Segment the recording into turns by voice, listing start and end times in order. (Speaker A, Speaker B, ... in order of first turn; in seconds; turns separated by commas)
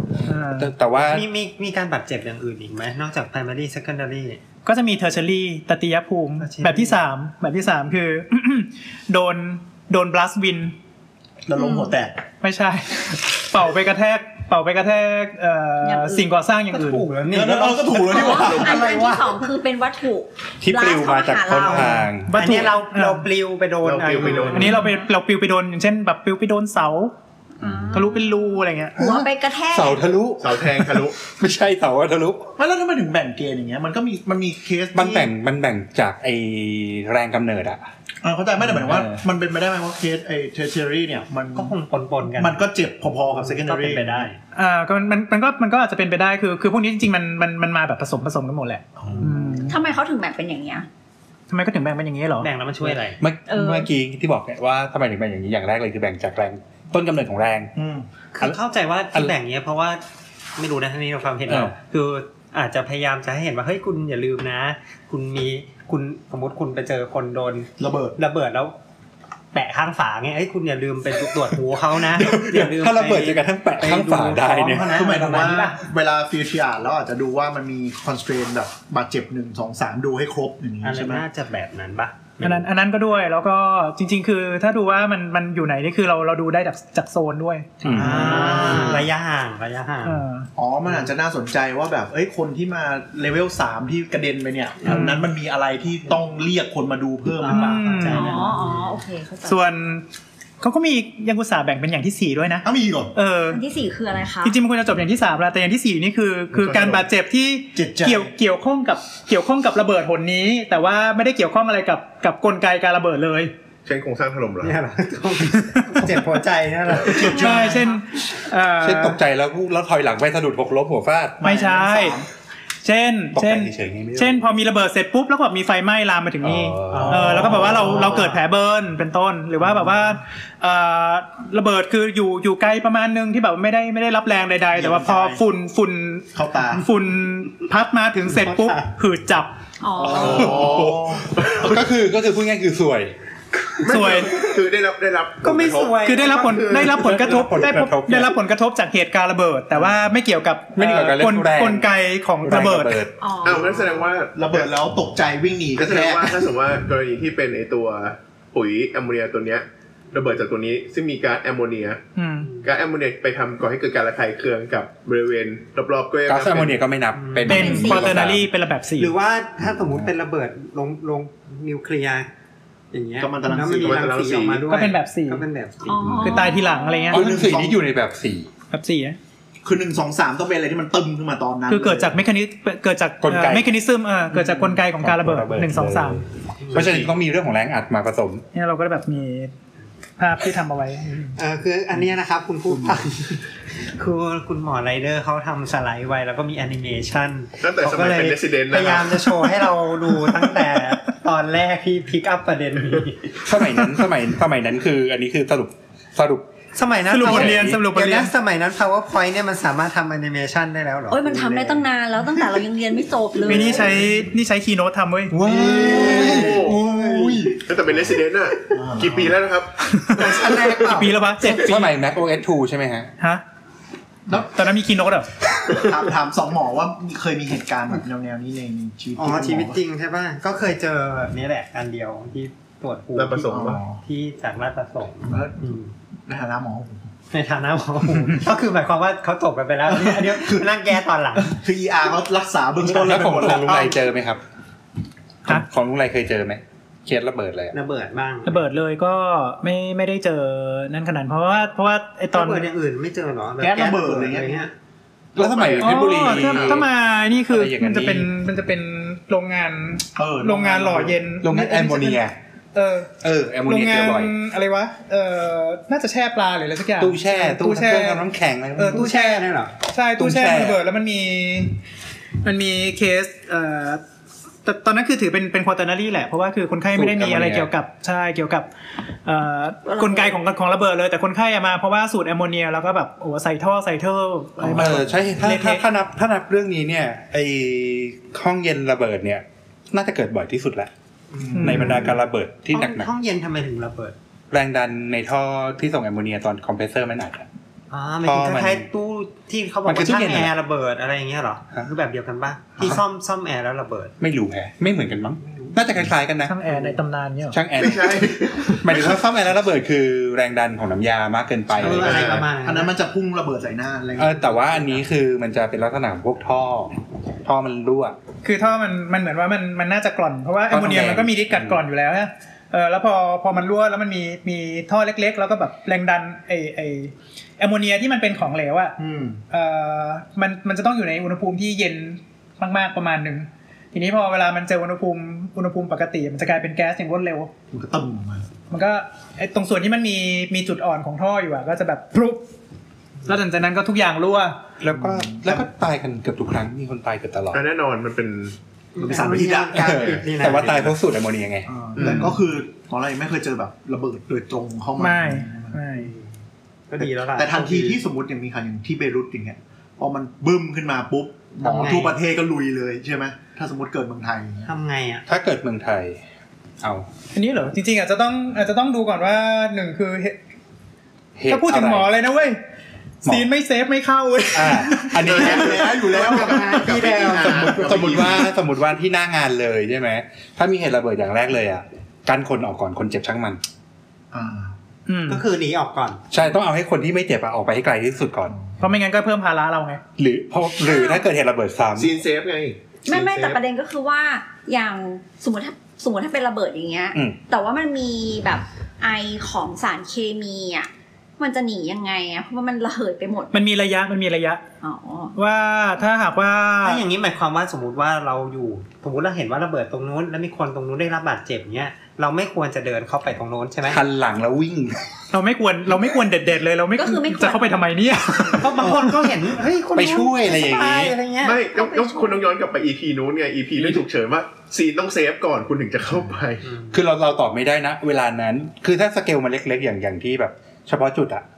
Speaker A: 0.2-1.3, Speaker B: 0.2-0.7, Speaker C: 1.0-4.4, Speaker B: 4.7-10.8, Speaker C: 6.4-7.0, Speaker D: 11.5-12.2, Speaker E: 11.6-11.9, Speaker B: 12.4-17.1, Speaker E: 15.8-16.3, Speaker C: 16.7-19.2, Speaker D: 17.3-19.1, Speaker E: 18.1-22.1, Speaker F: 18.4-18.8, Speaker A: 20.6-22.6, Speaker B: 22.2-23.3, Speaker C: 22.3-24.8, Speaker F: 23.8-24.7, Speaker E: 24.2-25.1, Speaker B: 24.5-27.1, Speaker E: 27.6-30.0, Speaker B: 27.9-29.2, Speaker A: 29.7-32.5, Speaker F: 30.4-31.1, Speaker D: 32.6-35.3, Speaker A: 35.0-37.9, Speaker D: 38.2-41.8, Speaker A: 38.6-39.2, Speaker C: 41.5-42.6, Speaker D: 42.3-44.3, Speaker C: 43.3-44.4, Speaker B: 44.5-49.8, Speaker D: 49.0-49.8, Speaker E: 49.7-50.9, Speaker B: 51.5-52.5, Speaker C: 52.4-53.2, Speaker A: 53.2-57.7, Speaker E: 53.5-53.9, Speaker D: 57.8-58.1, Speaker C: 58.3-60.0, Speaker C: 60.6-68.8, Speaker A: 61.5-61.7, Speaker D: 67.8-68.2, Speaker C: 69.5-75.8, Speaker A: 72.0-75.0, Speaker D: 74.9-81.2, Speaker C: 80.8-82.6, Speaker B: 82.4-89.1, Speaker A: 87.8-88.5, Speaker D: 87.8-89.1, Speaker C: 87.9-90.2, Speaker B: 90.0-90.5, Speaker D: 90.5-98.3, Speaker B: 94.8-95.3, Speaker C: 97.4-98.9, Speaker B: 97.5-98.5, Speaker E: 98.1-99.6, Speaker B: 99.4-100.0, Speaker B: 100.6-103.6, Speaker D: 102.6-103.1, Speaker E: 103.5-104.6, Speaker B: 104.4-113.5, Speaker D: 107.7-108.3, Speaker F: 113.8-114.8, Speaker C: 114.6-117.7, Speaker B: 115.6-116.2, Speaker E: 117.1-118.0, Speaker B: 117.2-119.2, Speaker A: 118.8-121.5, Speaker B: 121.4-122.2, Speaker D: 121.4-122.3, Speaker B: 122.8-139.6, Speaker A: 123.3-124.5, Speaker A: 126.4-127.9, Speaker C: 126.9-128.3, Speaker D: 127.0-128.3, Speaker D: 134.7-135.5, Speaker D: 136.3-136.9, Speaker C: 138.4-138.8, Speaker E: 139.8-140.7, Speaker A: 140.0-143.2, Speaker F: 140.1-141.8, Speaker D: 140.2-141.4, Speaker F: 143.8-146.0, Speaker B: 143.9-144.5, Speaker C: 145.4-146.9, Speaker B: 146.0-153.1, Speaker A: 146.8-148.3, Speaker A: 150.8-151.9, Speaker A: 152.4-153.1, Speaker E: 153.2-154.1, Speaker F: 153.4-154.7, Speaker D: 154.3-156.5, Speaker F: 155.8-162.0, Speaker B: 162.2-162.5, Speaker F: 162.6-166.8, Speaker A: 166.3-168.5, Speaker C: 167.1-167.8, Speaker B: 167.5-169.2, Speaker E: 167.5-168.2, Speaker C: 169.0-172.3, Speaker C: 172.9-176.4, Speaker D: 173.2-174.1, Speaker F: 173.7-174.7, Speaker B: 174.7-175.5, Speaker E: 175.9-177.2, Speaker B: 176.2-177.2, Speaker D: 177.1-177.8, Speaker A: 177.1-178.5, Speaker B: 178.7-179.2, Speaker D: 179.6-182.2, Speaker B: 181.7-186.2, Speaker A: 183.2-183.8, Speaker A: 184.4-188.4, Speaker C: 186.7-187.0, Speaker B: 188.5-189.5, Speaker B: 190.2-191.3, Speaker C: 191.4-203.3, Speaker F: 197.6-199.4, Speaker A: 203.4-206.5, Speaker C: 206.7-211.8, Speaker B: 207.1-208.3, Speaker A: 207.2-207.8, Speaker E: 211.1-214.0, Speaker B: 213.5-215.4, Speaker A: 215.3-217.6, Speaker D: 215.4-217.6, Speaker F: 215.7-216.8, Speaker C: 215.8-217.4, Speaker F: 217.5-220.8, Speaker D: 218.7-219.4, Speaker B: 219.9-222.0, Speaker D: 220.1-221.1, Speaker A: 221.4-223.1, Speaker B: 224.3-225.3, Speaker D: 225.7-229.8, Speaker C: 229.2-235.9, Speaker F: 233.2-233.8, Speaker D: 233.4-234.0, Speaker D: 235.2-235.6, Speaker D: 236.3-237.1, Speaker C: 237.3-241.6, Speaker D: 239.9-240.7, Speaker D: 241.3-244.0, Speaker A: 242.8-244.4, Speaker A: 245.5-247.8, Speaker C: 247.7-248.6, Speaker B: 248.4-252.7, Speaker C: 252.3-254.7, Speaker D: 253.6-254.7, Speaker F: 255.4-256.8, Speaker A: 255.4-256.9, Speaker B: 255.8-262.2, Speaker A: 257.4-258.3, Speaker D: 260.2-261.2, Speaker A: 261.4-262.4, Speaker B: 262.7-263.1, Speaker A: 263.2-264.3, Speaker B: 263.6-271.8, Speaker A: 267.0-269.1, Speaker C: 268.9-269.7, Speaker A: 270.2-270.8, Speaker B: 272.4-274.0, Speaker B: 274.6-278.7, Speaker A: 276.9-277.7, Speaker B: 279.2-285.8, Speaker E: 279.9-280.4, Speaker A: 284.6-290.9, Speaker C: 291.3-292.0, Speaker D: 291.4-292.2, Speaker B: 291.6-292.1, Speaker A: 291.6-293.1, Speaker C: 292.7-294.2, Speaker A: 294.5-297.5, Speaker C: 297.9-304.1, Speaker A: 298.2-298.9, Speaker A: 299.9-300.5, Speaker A: 304.2-306.6, Speaker D: 305.6-306.0, Speaker B: 306.5-307.6, Speaker A: 307.5-312.2, Speaker F: 307.8-309.1, Speaker C: 311.8-312.9, Speaker D: 311.8-315.0, Speaker F: 312.0-312.5, Speaker A: 314.2-318.2, Speaker B: 318.4-329.0, Speaker A: 320.7-321.8, Speaker D: 329.0-329.4, Speaker B: 329.5-337.5, Speaker D: 337.7-338.5, Speaker B: 338.7-342.4, Speaker B: 343.3-344.6, Speaker A: 344.8-347.7, Speaker D: 344.9-345.7, Speaker F: 347.5-348.6, Speaker C: 348.9-350.9, Speaker D: 349.0-350.2, Speaker A: 349.7-352.1, Speaker D: 351.7-355.8, Speaker F: 351.9-352.3, Speaker B: 355.0-356.1, Speaker C: 356.0-356.3, Speaker C: 356.9-358.0, Speaker D: 357.3-364.7, Speaker C: 361.6-362.2, Speaker C: 364.7-365.3, Speaker A: 365.3-366.2, Speaker A: 366.8-367.1, Speaker B: 367.3-370.4, Speaker A: 371.4-372.1, Speaker B: 371.5-372.6, Speaker B: 373.2-375.3, Speaker A: 374.5-383.6, Speaker D: 375.2-377.3, Speaker F: 375.2-378.5, Speaker C: 377.0-377.4, Speaker D: 384.3-384.7, Speaker B: 385.1-385.4, Speaker C: 385.3-386.2, Speaker A: 386.3-388.6, Speaker B: 388.8-390.0, Speaker A: 390.2-392.2, Speaker E: 390.8-391.3, Speaker F: 392.0-393.6, Speaker E: 393.1-403.6, Speaker B: 403.5-404.6, Speaker E: 404.8-405.4, Speaker B: 405.4-407.0, Speaker C: 406.8-414.0, Speaker A: 413.9-415.1, Speaker B: 415.3-419.3, Speaker E: 417.0-417.9, Speaker C: 418.6-421.6, Speaker A: 419.9-421.2, Speaker F: 421.4-426.7, Speaker E: 421.7-422.5, Speaker D: 426.1-426.4, Speaker C: 426.6-427.0, Speaker A: 426.9-431.4